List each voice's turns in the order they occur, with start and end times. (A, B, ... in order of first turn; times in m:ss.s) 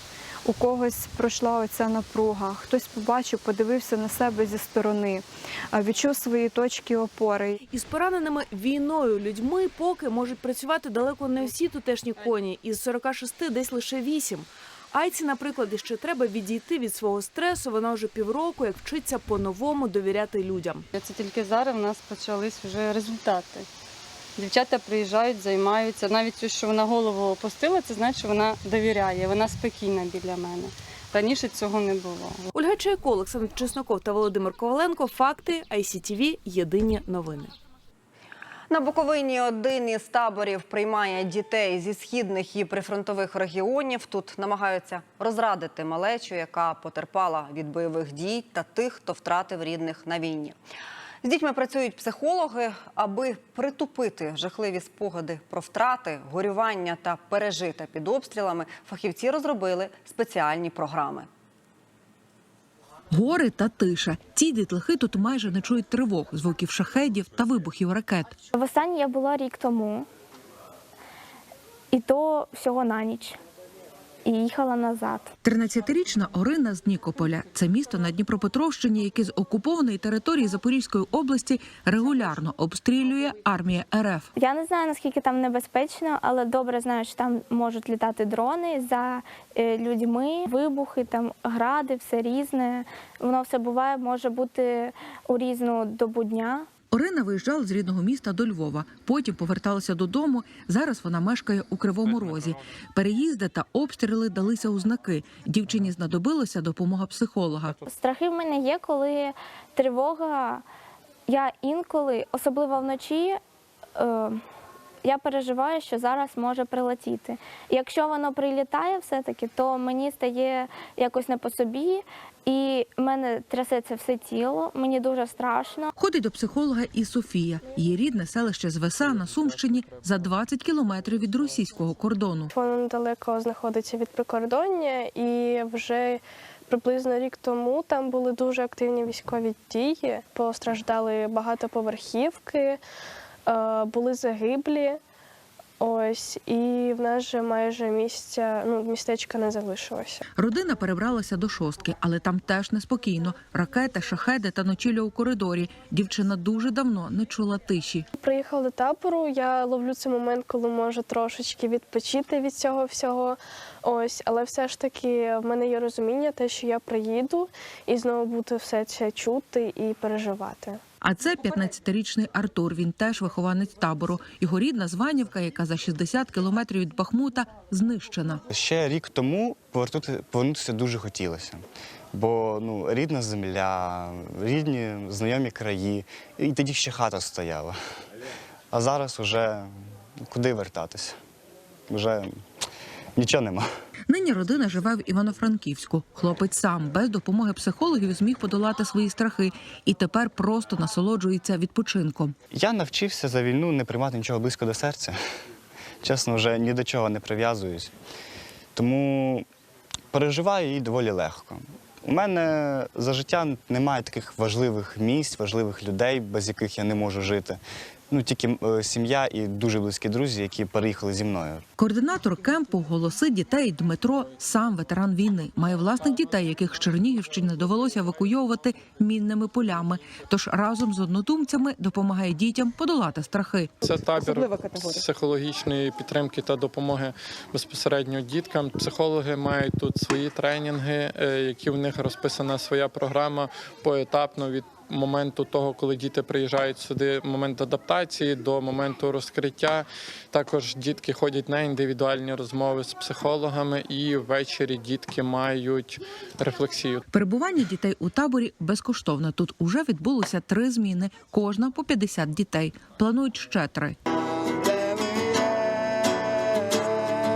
0:00.4-0:07.6 A
0:07.7-0:20.9 B
0:20.9-0:23.7 C
0:24.4-0:32.4 C
0:32.5-0:37.5 B
0:38.7-0:50.6 D
0:51.2-1:01.3 D
1:03.1-1:08.4 E
1:08.5-1:10.1 F
1:11.9-1:13.4 F
1:14.2-1:15.3 F
1:15.4-1:24.3 E
1:24.4-1:36.7 F
1:36.9-1:47.8 E
1:47.9-1:50.6 F
1:51.3-1:53.4 F
1:54.0-1:54.4 F
1:55.0-2:05.9 F
2:06.0-2:12.5 E
2:12.5-2:22.8 G
2:23.4-2:25.0 G
2:25.8-2:30.2 G
2:30.4-2:38.1 E
2:38.2-2:50.8 G
2:51.0-2:58.4 E
2:58.5-3:07.8 H
3:08.7-3:11.2 H
3:11.9-3:12.4 H
3:13.2-3:13.7 H
3:14.1-3:22.4 E
3:22.5-3:25.2 H
3:26.0-3:27.9 H
3:28.7-3:29.4 H
3:30.1-3:41.6 H
3:41.8-3:53.7 E
3:53.8-4:17.0 I
4:17.1-4:24.0 E